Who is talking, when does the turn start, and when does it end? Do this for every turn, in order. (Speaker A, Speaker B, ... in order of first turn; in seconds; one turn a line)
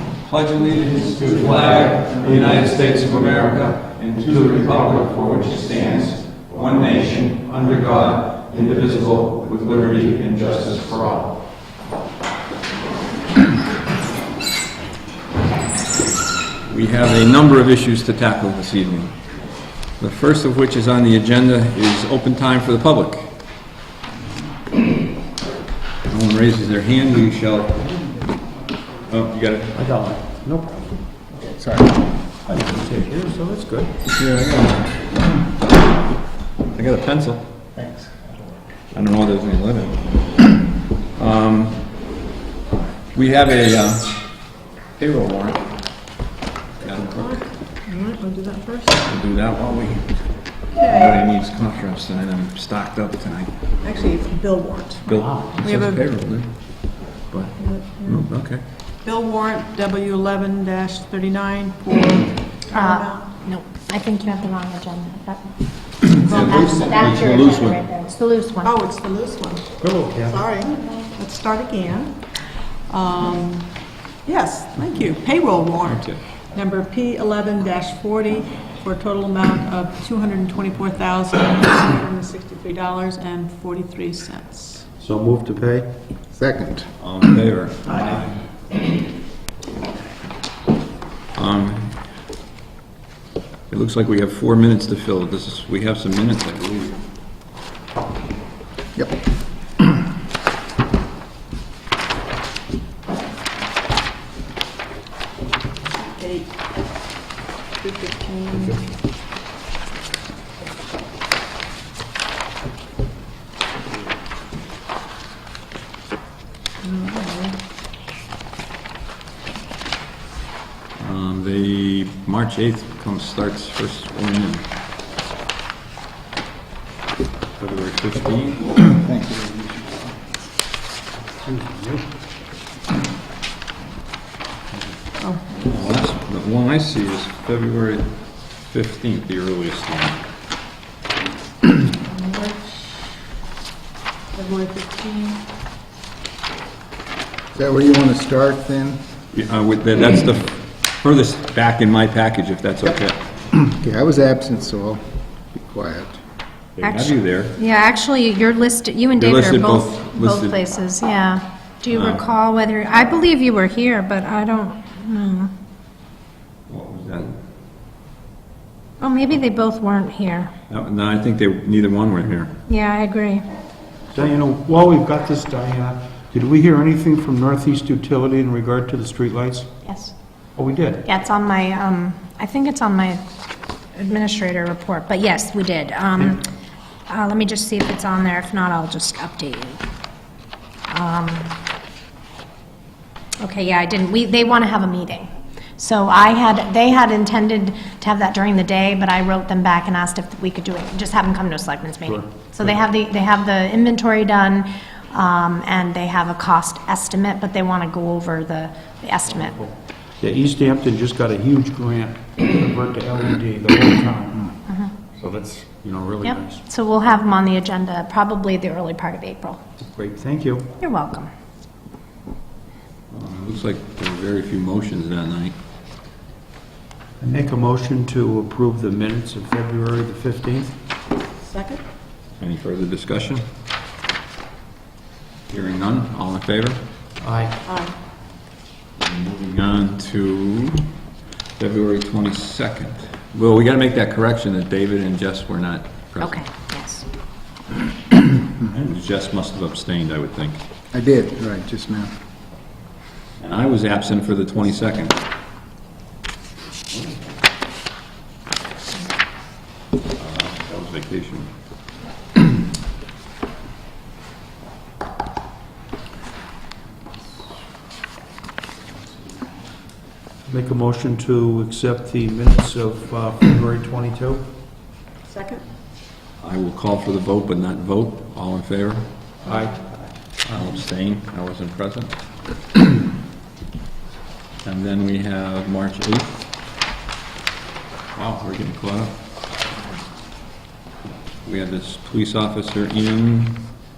Speaker A: 0.2-11.5
Speaker A: 16.6-19.2
Speaker A: 20.0-23.4
Speaker A: 26.1-27.9
Speaker A: 29.1-29.8
Speaker B: 29.7-30.9
Speaker C: 31.3-32.1
Speaker B: 32.5-33.9
Speaker A: 34.1-35.1
Speaker A: 36.7-37.5
Speaker C: 37.8-38.4
Speaker A: 38.9-40.2
Speaker A: 41.1-41.9
Speaker A: 43.1-44.4
Speaker A: 44.9-45.7
Speaker A: 46.8-47.4
Speaker D: 46.9-49.0
Speaker A: 49.0-50.2
Speaker D: 50.7-51.2
Speaker A: 50.8-53.5
Speaker D: 53.8-56.0
Speaker A: 55.0-58.6
Speaker D: 57.6-58.2
Speaker D: 59.0-63.3
Speaker E: 62.7-68.7
Speaker A: 66.0-67.8
Speaker D: 66.3-66.9
Speaker D: 68.6-73.7
Speaker B: 69.8-70.3
Speaker D: 74.2-84.9
Speaker A: 75.8-76.2
Speaker B: 85.0-85.9
Speaker C: 86.3-86.9
Speaker A: 87.0-88.3
Speaker A: 91.3-92.0
Speaker A: 93.7-97.0
Speaker D: 106.0-106.5
Speaker D: 107.8-108.8
Speaker D: 116.8-117.6
Speaker A: 121.0-124.7
Speaker A: 127.6-128.8
Speaker C: 128.8-130.2
Speaker B: 131.5-132.0
Speaker D: 135.2-135.6
Speaker A: 135.6-140.2
Speaker D: 142.0-143.2
Speaker D: 144.3-145.4
Speaker C: 147.5-149.0
Speaker A: 149.3-153.2
Speaker C: 153.5-156.2
Speaker A: 156.8-157.6
Speaker E: 156.8-165.5
Speaker A: 159.2-160.6
Speaker A: 161.9-162.2
Speaker A: 166.7-167.4
Speaker E: 169.0-170.5
Speaker A: 170.7-172.6
Speaker E: 172.7-173.4
Speaker B: 174.1-179.7
Speaker E: 179.8-180.1
Speaker B: 180.6-181.1
Speaker E: 181.0-183.2
Speaker E: 183.9-186.5
Speaker E: 187.1-189.8
Speaker E: 190.9-191.6
Speaker E: 193.4-209.7
Speaker B: 202.1-202.4
Speaker B: 210.2-214.6
Speaker E: 214.7-215.1
Speaker B: 215.2-216.7
Speaker E: 216.2-219.6
Speaker B: 219.8-220.7
Speaker E: 220.8-221.3
Speaker A: 223.1-225.6
Speaker B: 227.2-230.8
Speaker D: 231.4-231.8
Speaker A: 232.4-233.4
Speaker A: 235.5-236.8
Speaker B: 237.2-237.6
Speaker D: 237.7-237.9
Speaker A: 239.0-240.9
Speaker A: 241.6-246.4
Speaker E: 246.2-247.1
Speaker A: 248.6-250.6
Speaker C: 250.9-252.1
Speaker A: 253.4-255.2
Speaker A: 256.9-257.2
Speaker A: 260.2-261.5
Speaker B: 270.4-274.5
Speaker D: 275.3-275.6
Speaker A: 276.4-279.1
Speaker B: 279.5-279.8
Speaker A: 280.5-282.1
Speaker A: 284.6-286.4
Speaker A: 288.1-289.1
Speaker A: 291.4-293.7